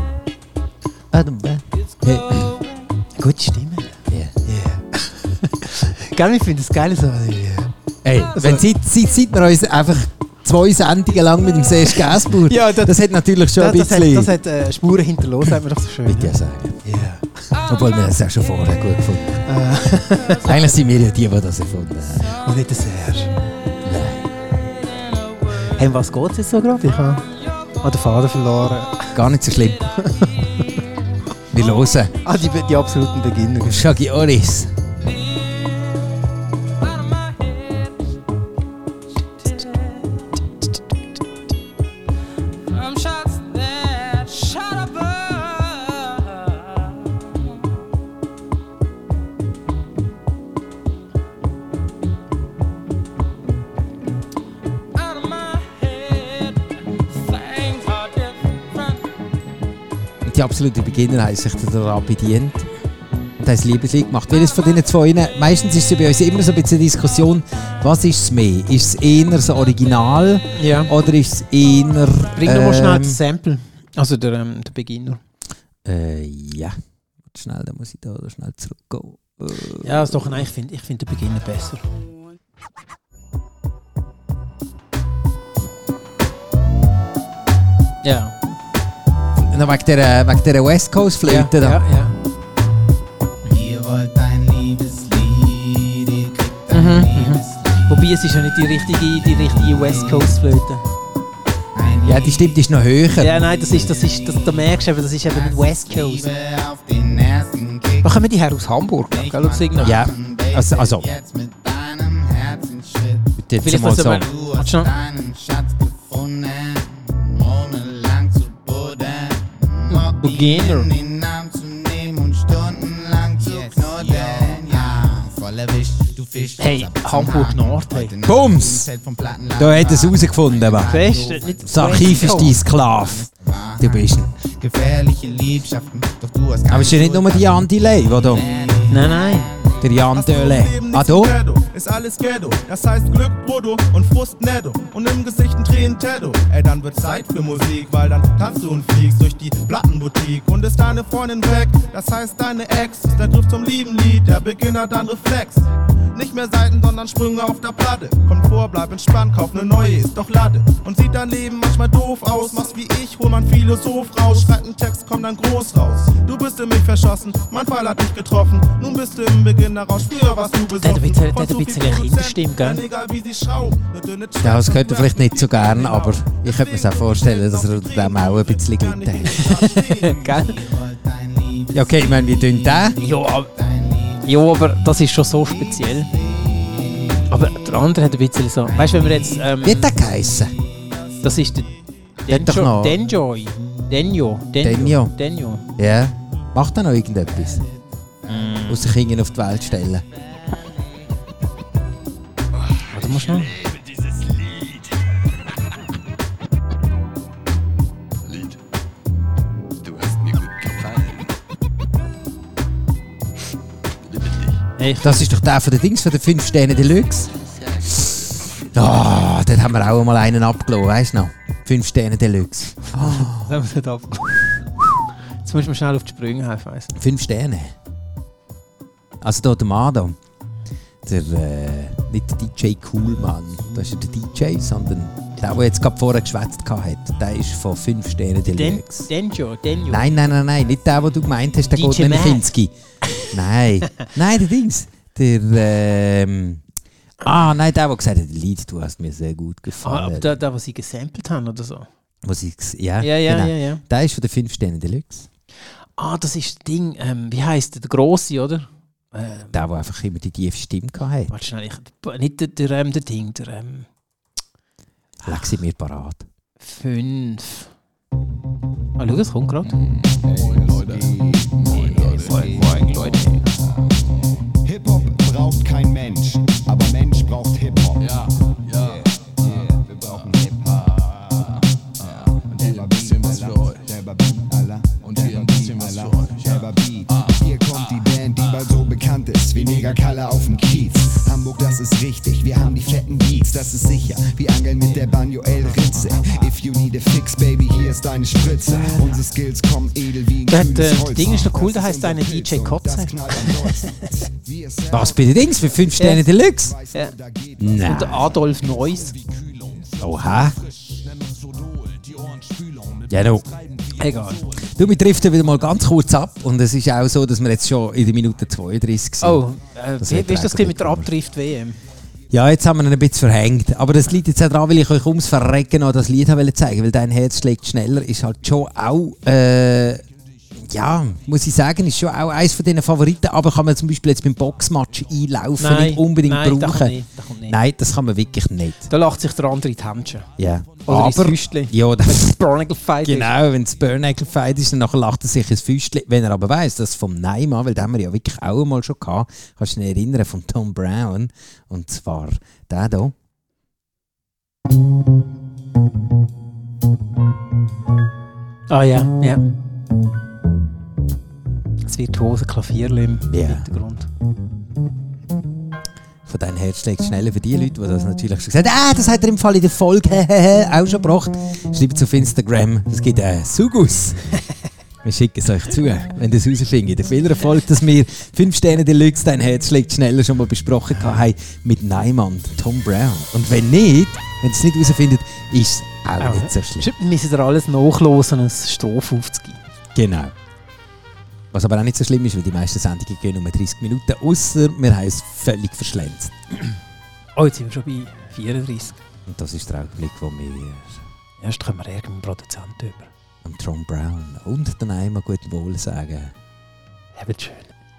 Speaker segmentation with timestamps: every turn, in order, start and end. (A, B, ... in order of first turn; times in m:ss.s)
0:01.1-0:02.5 A
0:03.1-0:07.7 B
0:04.1-0:04.4 A
0:08.0-0:14.3 A
0:08.4-0:08.6 B
0:11.9-0:13.0 B
0:13.5-0:17.2 B
0:16.0-0:16.8 A
0:17.6-0:19.4 A
0:19.4-0:20.6 B
0:20.4-0:22.3 A
0:22.3-0:23.3 B
0:23.8-0:24.3 A
0:25.6-0:27.3 B
0:27.8-0:29.2 B
0:29.1-0:29.8 A
0:30.0-0:30.6 B
0:31.5-0:32.1 A
0:32.2-0:33.9 B
0:33.6-0:34.7 A
0:42.9-0:44.8 B
1:00.2-1:02.7 A
1:03.4-1:13.2 A
1:10.6-1:10.9 B
1:12.4-1:15.2 B
1:15.8-1:16.8 A
1:17.3-1:20.4 A
1:19.8-1:21.8 B
1:28.0-1:28.3 B
1:29.4-1:31.8 A
1:31.2-1:32.1 B
1:33.5-1:38.0 C
1:36.7-1:40.8 B
1:39.4-1:40.2 C
1:41.8-1:42.6 C
1:42.0-1:43.4 A
1:43.2-1:46.3 B
1:43.5-1:44.6 C
1:45.2-1:48.2 C
1:48.0-1:50.0 B
1:49.1-1:53.3 C
1:49.8-1:51.1 A
1:53.4-1:54.3 A
1:53.6-1:54.9 B
1:54.1-2:19.8 C
1:59.9-2:00.9 B
2:06.6-2:08.1 B
2:08.2-2:08.9 A
2:09.6-2:10.9 A
2:10.8-2:12.6 B
2:11.6-2:13.3 A
2:13.8-2:14.3 A
2:16.7-2:18.5 A
2:18.9-2:19.5 B
2:19.8-2:21.3 A
2:20.1-3:00.1 D
2:50.8-2:52.8 B
2:54.4-2:59.6 A
2:59.3-3:00.6 B
3:00.1-3:03.0 C
3:01.7-3:03.0 A
3:03.0-3:03.5 B
3:03.5-3:04.2 C
3:04.2-3:06.1 B
3:05.9-3:07.2 C
3:07.3-3:09.8 B
3:08.7-3:09.5 C
3:09.6-3:10.5 A
3:11.2-3:11.7 B
3:12.2-3:15.6 B
3:12.3-3:13.0 A
3:14.6-3:15.1 A
3:15.8-3:17.6 A
3:18.3-3:18.9 B
3:18.7-3:20.0 A
3:22.9-3:23.6 B
3:34.8-3:35.3 B
3:35.0-3:37.3 A
3:38.0-3:43.5 A
3:42.9-3:44.6 B
3:45.4-3:47.0 B
3:46.9-3:47.7 A
3:49.2-3:50.2 A
3:51.0-3:59.1 A
3:58.4-4:00.1 B
3:59.9-4:02.7 A
4:01.7-4:02.5 B
4:03.3-4:06.6 A
4:07.2-4:10.3 A
4:09.8-4:11.9 B
4:12.2-4:15.3 A
4:13.0-4:13.8 B
4:16.0-4:19.5 B
4:19.5-4:21.3 A
4:21.3-4:23.9 B
4:25.2-4:26.2 A
4:26.6-4:27.7 B
4:29.0-4:29.8 B
4:30.1-4:33.0 E
4:31.8-4:33.4 B
4:34.6-5:05.9 E
4:58.7-4:59.2 B
5:00.5-5:03.9 B
5:04.9-5:06.8 A
5:06.0-5:06.3 B
5:06.6-5:08.4 E
5:07.6-5:08.3 A
5:07.8-5:09.1 B
5:10.0-5:10.6 A
5:13.1-5:13.5 A
5:14.0-5:14.4 B
5:14.7-5:19.5 A
5:19.2-5:21.8 B
5:20.0-5:21.1 A
5:22.3-5:30.0 A
5:30.6-5:38.9 A
5:35.6-5:37.6 B
5:38.9-5:40.3 B
5:40.4-5:42.4 A
5:40.8-5:43.3 B
5:43.0-5:53.1 A
5:58.7-5:59.4 B
6:01.8-6:04.1 B
6:03.3-6:03.7 A
6:06.2-6:14.4 A
6:15.0-6:26.9 A
6:20.9-6:21.2 B
6:26.2-6:29.6 B
6:29.9-6:30.3 A
6:31.5-6:36.3 A
6:37.4-6:39.0 B
6:39.2-6:41.0 A
6:41.4-6:43.1 B
6:43.4-6:46.3 A
6:47.1-6:47.7 B